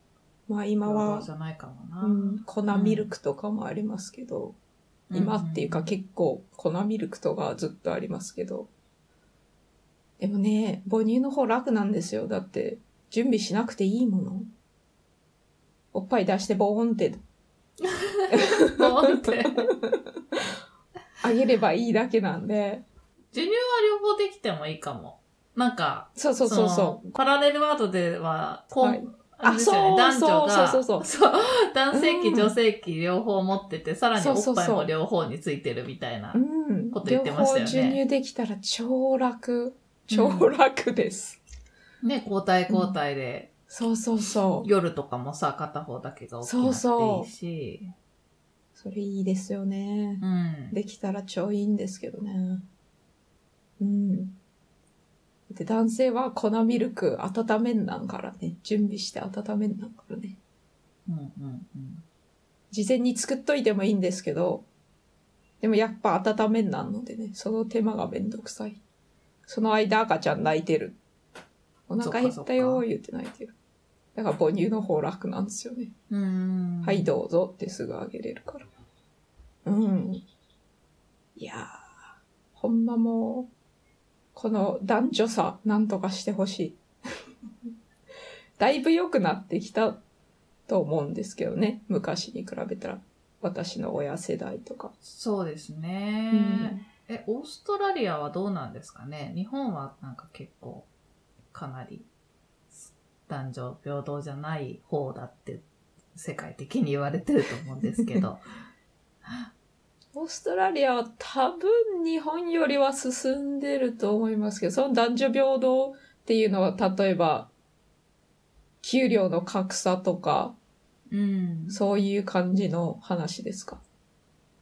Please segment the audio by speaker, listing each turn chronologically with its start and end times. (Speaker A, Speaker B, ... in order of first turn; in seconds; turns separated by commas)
Speaker A: 0.5-1.3, Speaker B: 0.8-3.1, Speaker A: 2.0-4.6, Speaker B: 5.1-5.9, Speaker A: 5.1-8.7, Speaker A: 10.2-14.5, Speaker A: 15.9-17.2, Speaker B: 17.8-19.7, Speaker A: 18.3-19.2, Speaker A: 21.2-22.9, Speaker B: 23.3-38.0, Speaker A: 26.2-27.1, Speaker A: 28.8-31.1, Speaker A: 31.9-32.6, Speaker A: 34.2-34.9, Speaker A: 36.3-41.4, Speaker B: 40.1-40.5, Speaker B: 42.0-43.5, Speaker A: 42.7-43.0, Speaker A: 43.7-44.7, Speaker B: 44.6-47.9, Speaker A: 46.4-47.3, Speaker A: 48.8-52.6, Speaker B: 50.2-50.8, Speaker A: 53.8-54.4, Speaker A: 55.5-60.4, Speaker B: 61.1-62.0, Speaker A: 62.7-64.7, Speaker A: 65.6-68.8, Speaker A: 69.5-71.0, Speaker A: 71.9-73.5, Speaker B: 72.0-72.9, Speaker A: 74.2-75.9, Speaker B: 76.1-77.1, Speaker A: 76.8-78.7, Speaker A: 79.7-80.2, Speaker A: 81.4-81.8, Speaker A: 82.5-83.5, Speaker A: 84.3-86.8, Speaker A: 88.6-90.0, Speaker A: 90.7-94.9, Speaker B: 95.0-100.9, Speaker A: 96.3-96.9, Speaker B: 101.5-102.1, Speaker B: 102.7-108.4, Speaker A: 110.1-117.5, Speaker A: 118.8-120.5, Speaker B: 121.1-121.8, Speaker A: 121.7-123.8